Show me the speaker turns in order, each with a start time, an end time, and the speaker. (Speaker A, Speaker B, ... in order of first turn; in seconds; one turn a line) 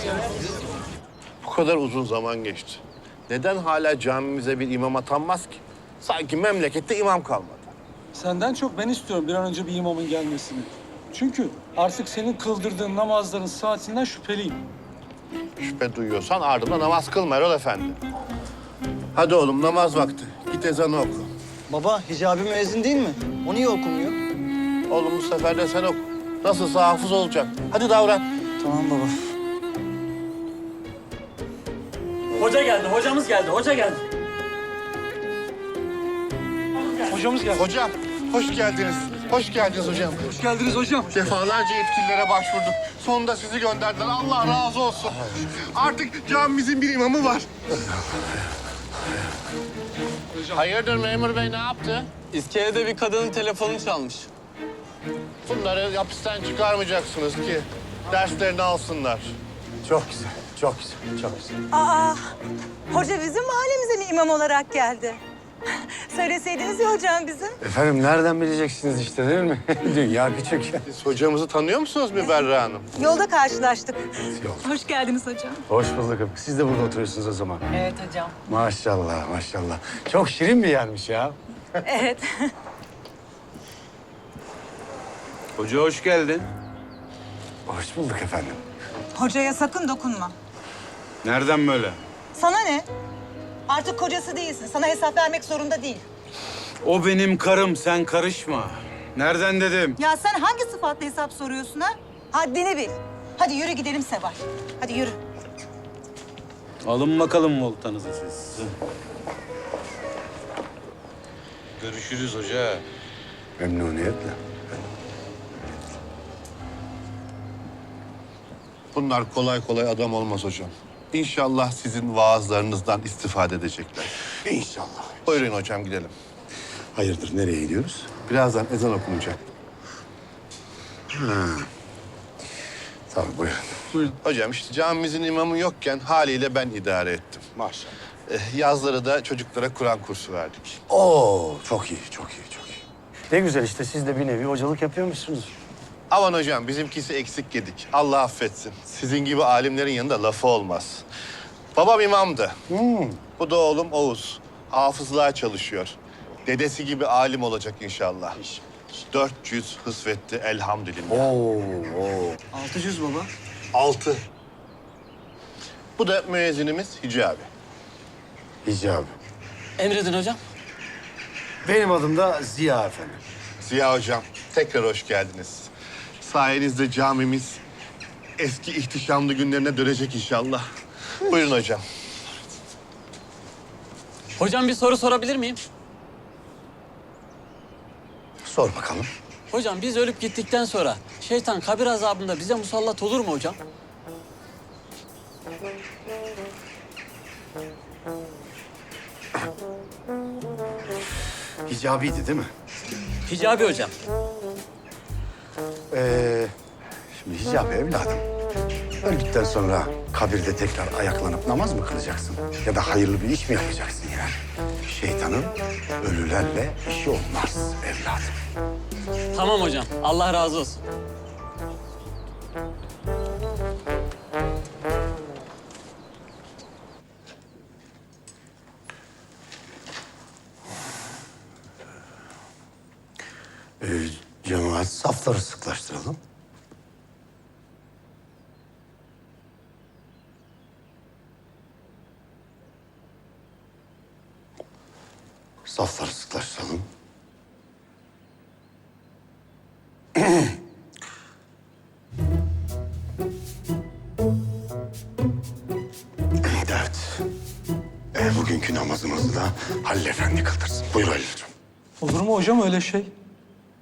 Speaker A: 1.4-7.7
Speaker B: 8.2-14.6
Speaker A: 15.6-18.0
Speaker A: 19.1-21.3
Speaker C: 21.7-24.2
Speaker A: 24.9-28.2
Speaker C: 28.6-29.2
Speaker D: 32.4-34.0
Speaker B: 37.1-37.6
Speaker A: 37.5-40.4
Speaker B: 40.3-41.3
Speaker A: 41.1-47.5
Speaker A: 50.5-52.1
Speaker D: 52.3-54.3
Speaker A: 55.5-59.4
Speaker E: 59.8-61.6
Speaker F: 61.7-62.3
Speaker F: 62.9-65.2
Speaker F: 65.8-67.6
Speaker E: 67.6-70.8
Speaker A: 70.9-72.9
Speaker F: 73.0-75.7
Speaker E: 74.4-74.7
Speaker E: 75.7-77.7
Speaker F: 77.7-78.4
Speaker E: 78.5-81.4
Speaker F: 81.8-82.5
Speaker G: 85.6-86.5
Speaker E: 87.7-88.6
Speaker F: 89.2-90.3
Speaker G: 91.2-92.0
Speaker F: 92.3-92.9
Speaker F: 93.7-96.0
Speaker G: 96.8-100.0
Speaker F: 100.0-105.2
Speaker G: 106.8-108.7
Speaker G: 111.8-112.8
Speaker E: 113.6-114.6
Speaker A: 118.9-124.2
Speaker E: 124.4-125.3
Speaker A: 125.3-126.1
Speaker E: 127.0-128.1
Speaker A: 128.2-129.4
Speaker E: 131.1-131.7
Speaker E: 133.1-133.8
Speaker A: 134.0-137.4
Speaker E: 137.6-137.9
Speaker A: 138.3-140.8
Speaker E: 140.9-145.5
Speaker A: 146.1-151.1
Speaker A: 151.8-152.6
Speaker E: 152.7-153.2
Speaker A: 153.4-161.3
Speaker E: 161.1-162.4
Speaker C: 162.5-163.3
Speaker A: 163.7-164.2
Speaker A: 166.0-167.5
Speaker E: 168.7-169.2
Speaker D: 169.8-170.4
Speaker E: 171.6-173.2
Speaker A: 173.6-177.6
Speaker A: 178.4-180.6
Speaker A: 181.2-181.8
Speaker D: 184.4-185.6
Speaker E: 188.4-189.1
Speaker D: 189.5-193.6
Speaker E: 201.7-202.5
Speaker D: 203.3-203.9
Speaker E: 205.9-206.5
Speaker E: 207.1-208.2
Speaker E: 209.0-218.4
Speaker D: 219.3-220.8
Speaker E: 233.8-236.2
Speaker E: 245.7-246.9
Speaker E: 250.2-250.5
Speaker E: 256.4-257.2
Speaker E: 258.1-261.5
Speaker B: 262.0-263.1